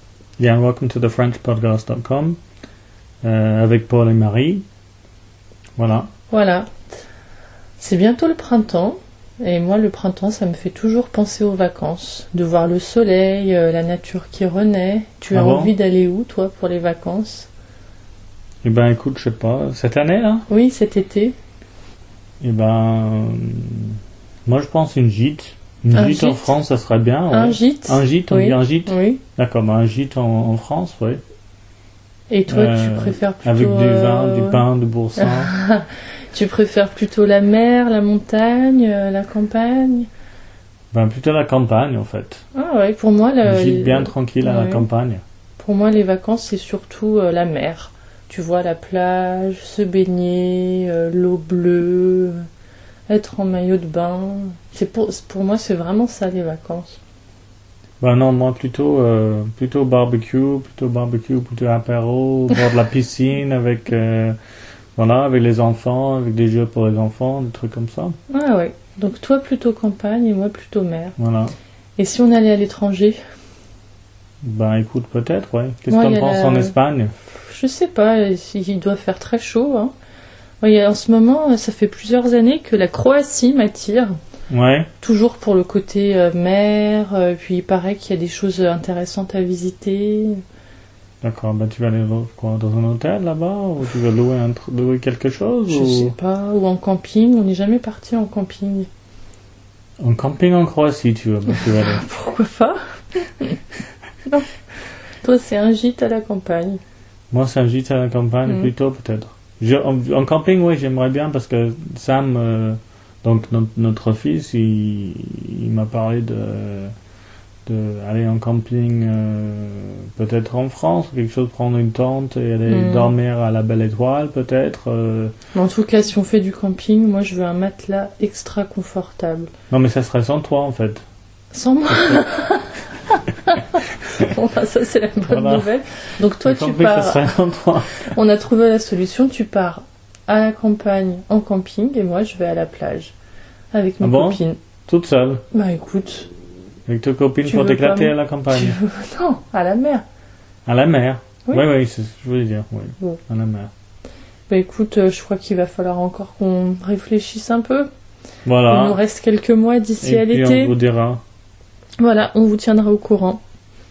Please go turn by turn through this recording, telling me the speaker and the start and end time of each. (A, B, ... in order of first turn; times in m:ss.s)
0:00.4-0:02.4 A
0:03.2-0:04.6 A
0:05.8-0:06.1 A
0:06.3-0:06.7 B
0:07.8-0:17.5 B
0:15.3-0:15.7 A
0:18.6-0:20.4 A
0:20.5-0:21.4 B
0:22.4-0:31.2 A
0:25.9-0:26.5 B
0:27.3-0:29.2 B
0:32.3-0:34.6 B
0:32.5-0:35.5 A
0:35.2-0:40.1 B
0:40.9-0:42.4 A
0:42.5-0:44.8 B
0:43.4-0:45.2 A
0:45.6-0:52.4 B
0:53.1-0:57.0 B
0:58.0-1:04.4 A
1:05.0-1:08.2 A
1:08.3-1:11.2 B
1:11.2-1:11.5 A
1:12.0-1:13.2 B
1:14.4-1:17.1 A
1:15.9-1:16.7 B
1:17.4-1:19.9 B
1:20.6-1:24.1 B
1:24.5-1:24.9 A
1:25.0-1:30.4 B
1:31.2-1:36.1 A
1:35.7-1:38.9 B
1:40.0-1:42.0 A
1:41.7-1:43.6 B
1:45.2-1:46.8 B
1:47.3-1:56.9 A
1:57.6-2:05.3 A
2:02.6-2:03.1 B
2:05.5-2:09.5 B
2:09.7-2:11.0 A
2:11.5-2:17.2 B
2:11.9-2:12.2 A
2:15.3-2:15.7 A
2:16.4-2:18.0 A
2:18.1-2:23.1 B
2:23.7-2:24.6 B
2:24.0-2:25.4 A
2:25.5-2:26.3 B
2:26.8-2:28.8 A
2:27.4-2:30.0 B
2:30.6-2:33.7 A
2:34.5-2:37.9 B
2:38.4-2:39.0 A
2:38.7-2:40.7 B
2:40.0-2:41.2 A
2:42.0-2:43.4 B